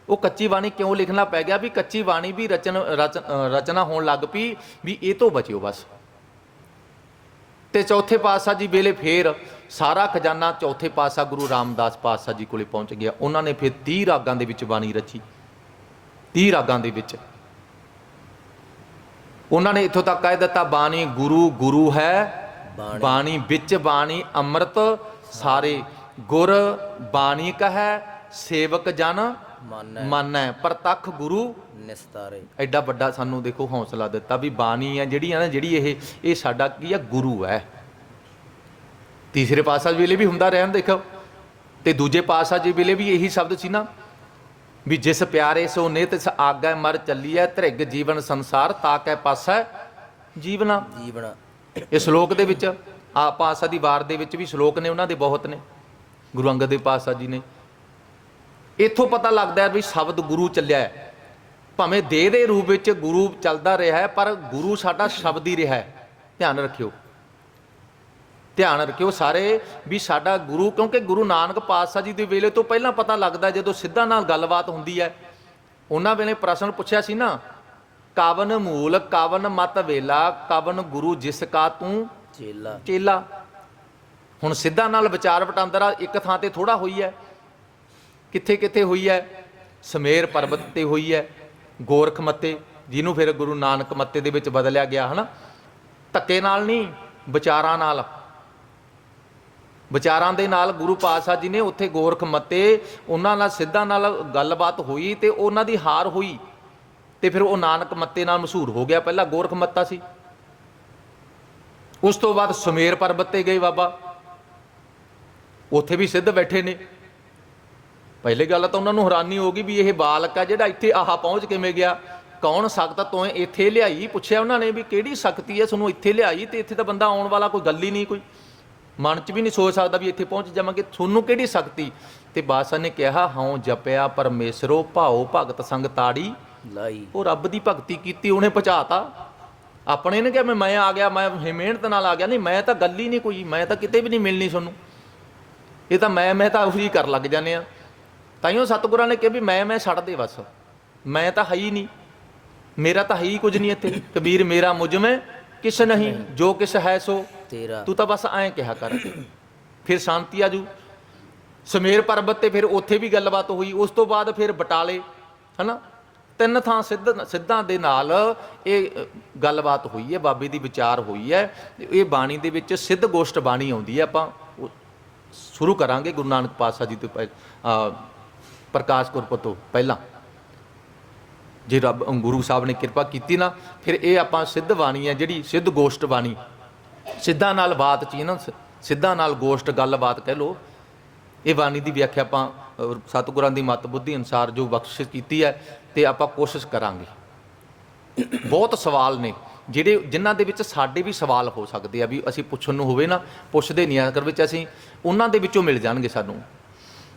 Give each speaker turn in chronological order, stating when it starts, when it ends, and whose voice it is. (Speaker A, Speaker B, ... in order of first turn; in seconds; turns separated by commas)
Speaker A: 0.1-5.9, Speaker A: 7.7-15.2, Speaker A: 16.3-17.2, Speaker A: 19.5-29.4, Speaker B: 22.7-23.3, Speaker B: 29.6-30.2, Speaker A: 30.0-31.6, Speaker B: 31.7-32.5, Speaker A: 32.6-37.7, Speaker A: 39.3-41.0, Speaker A: 41.8-43.9, Speaker A: 44.9-49.7, Speaker A: 50.4-50.9, Speaker B: 50.9-51.4, Speaker A: 51.9-55.6, Speaker A: 56.3-57.4, Speaker A: 58.8-61.0, Speaker A: 61.8-66.9, Speaker A: 68.6-75.2, Speaker A: 75.9-77.4, Speaker A: 78.2-82.1, Speaker B: 82.3-82.8, Speaker A: 82.8-83.3, Speaker A: 84.4-87.2, Speaker A: 88.3-89.3, Speaker A: 89.8-91.3, Speaker A: 91.8-95.3, Speaker A: 96.1-98.1, Speaker A: 99.9-106.4, Speaker A: 107.2-110.0, Speaker A: 112.0-113.9, Speaker A: 115.7-116.8, Speaker A: 118.2-128.2, Speaker A: 129.0-136.4, Speaker B: 136.6-137.1, Speaker A: 137.1-139.1, Speaker A: 139.9-144.8, Speaker A: 145.9-147.7, Speaker A: 148.4-150.5, Speaker A: 151.1-151.9, Speaker A: 152.8-157.3, Speaker B: 155.9-156.3, Speaker B: 157.5-157.9, Speaker A: 157.9-159.2, Speaker A: 159.8-160.7, Speaker A: 161.7-165.0, Speaker A: 165.6-165.8, Speaker A: 166.4-174.7, Speaker A: 175.3-178.0, Speaker A: 178.7-180.0, Speaker A: 181.7-186.4, Speaker A: 187.1-190.6, Speaker A: 191.4-197.1, Speaker A: 198.3-206.4